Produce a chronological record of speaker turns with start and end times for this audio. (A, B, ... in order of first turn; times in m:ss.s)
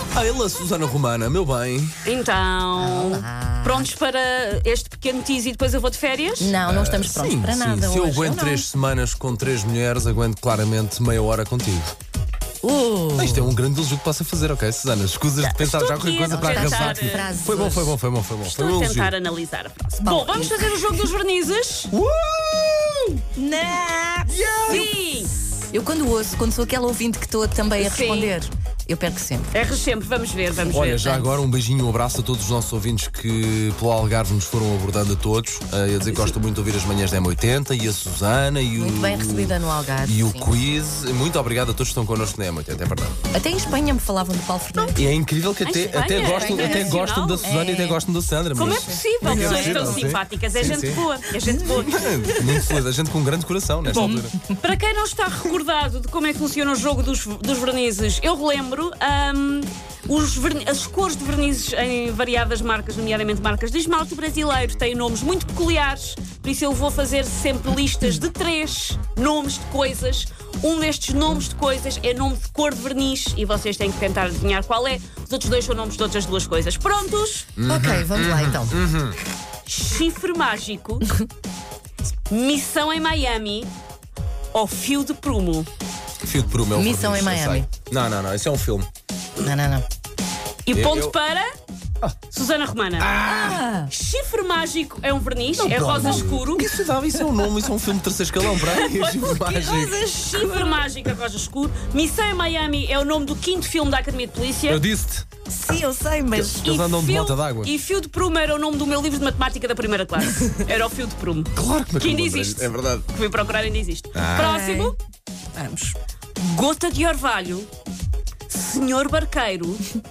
0:00.1-0:02.0 A
0:02.0-0:06.5 B
0:02.8-0:03.9 C
0:06.4-0:08.6 C
0:06.6-0:11.9 A
0:12.6-0:13.5 C
0:13.2-0:19.1 A
0:15.4-0:17.2 B
0:16.3-0:18.0 C
0:18.4-0:21.9 B
0:20.0-0:21.0 C
0:21.9-0:23.2 A
0:23.4-0:24.9 C
0:24.3-0:24.9 A
0:24.7-0:25.3 B
0:25.7-0:29.6 C
0:27.8-0:28.4 B
0:29.5-0:31.2 B
0:30.7-0:43.2 A
0:38.8-0:40.5 C
0:43.3-0:45.1 C
0:44.9-0:51.0 A
0:45.6-0:47.5 B
0:45.9-0:48.0 C
0:48.5-0:52.8 C
0:48.5-0:52.1 B
0:51.6-0:54.3 A
0:53.9-0:54.6 C
0:54.0-1:17.5 B
1:17.6-1:19.2 A
1:17.6-1:18.8 C
1:19.6-1:21.0 B
1:22.3-1:23.7 B
1:24.5-1:25.7 B
1:26.2-1:28.9 A
1:26.7-1:27.7 C
1:29.4-1:29.8 C
1:30.6-1:31.5 B
1:30.7-1:31.1 A
1:32.3-1:33.1 B
1:33.0-1:33.7 A
1:33.4-1:33.9 C
1:33.9-1:36.7 B
1:35.6-1:40.0 A
1:37.1-1:37.5 C
1:38.6-1:44.8 B
1:39.1-1:40.9 C
1:44.7-1:45.2 A
1:45.5-1:46.7 C
1:46.3-1:47.7 A
1:46.6-1:55.0 B
1:50.2-1:50.6 C
1:51.5-1:53.0 A
1:54.1-1:54.5 A
1:54.4-1:54.9 C
1:55.5-1:55.9 C
1:56.4-1:57.7 B
1:58.5-1:59.8 B